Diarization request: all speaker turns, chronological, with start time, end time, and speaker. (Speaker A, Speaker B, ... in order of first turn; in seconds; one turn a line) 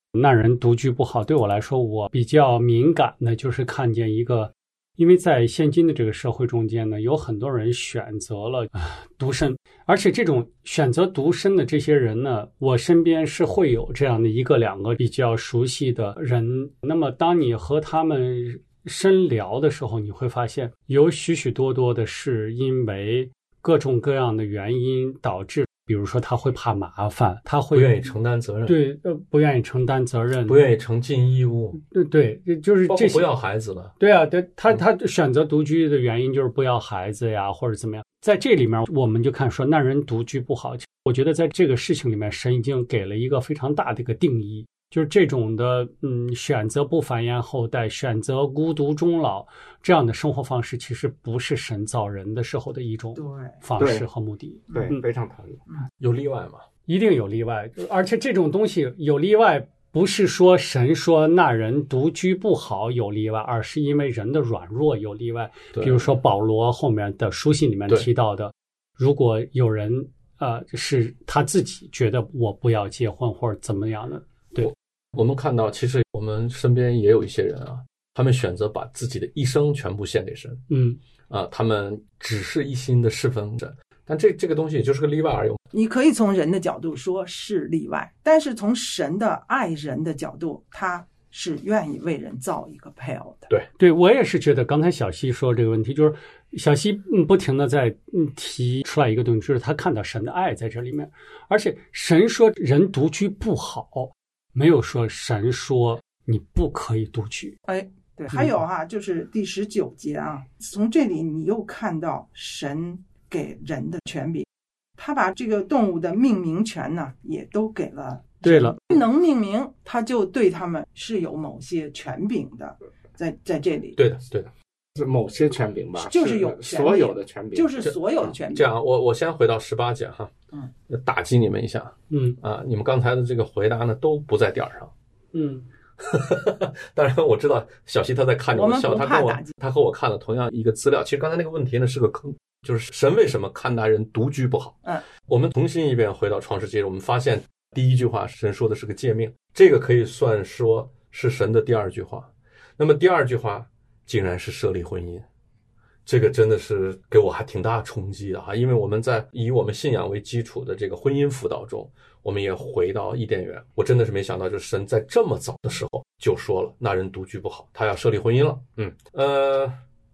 Speaker A: 0.1-28.0
Speaker B: 27.7-28.8
Speaker A: 28.7-30.6
Speaker B: 30.5-31.8
Speaker A: 31.9-33.2
Speaker B: 32.9-33.9
Speaker A: 34.0-55.0
Speaker C: 53.2-53.6
Speaker D: 53.8-54.1
Speaker D: 54.7-55.6
Speaker B: 56.0-56.6
Speaker A: 56.9-74.7
Speaker B: 65.8-66.1
Speaker B: 74.6-80.6
Speaker A: 80.7-81.0
Speaker B: 81.3-85.6
Speaker C: 85.7-93.5
Speaker A: 93.8-107.6
Speaker C: 107.7-114.5
Speaker C: 115.0-124.0
Speaker A: 118.4-118.8
Speaker B: 124.0-124.5
Speaker D: 125.0-127.9
Speaker C: 126.0-128.7
Speaker B: 127.8-130.3
Speaker B: 130.9-134.9
Speaker A: 132.1-132.4
Speaker A: 135.3-135.7
Speaker B: 136.0-155.2
Speaker C: 138.6-139.5
Speaker B: 156.1-169.8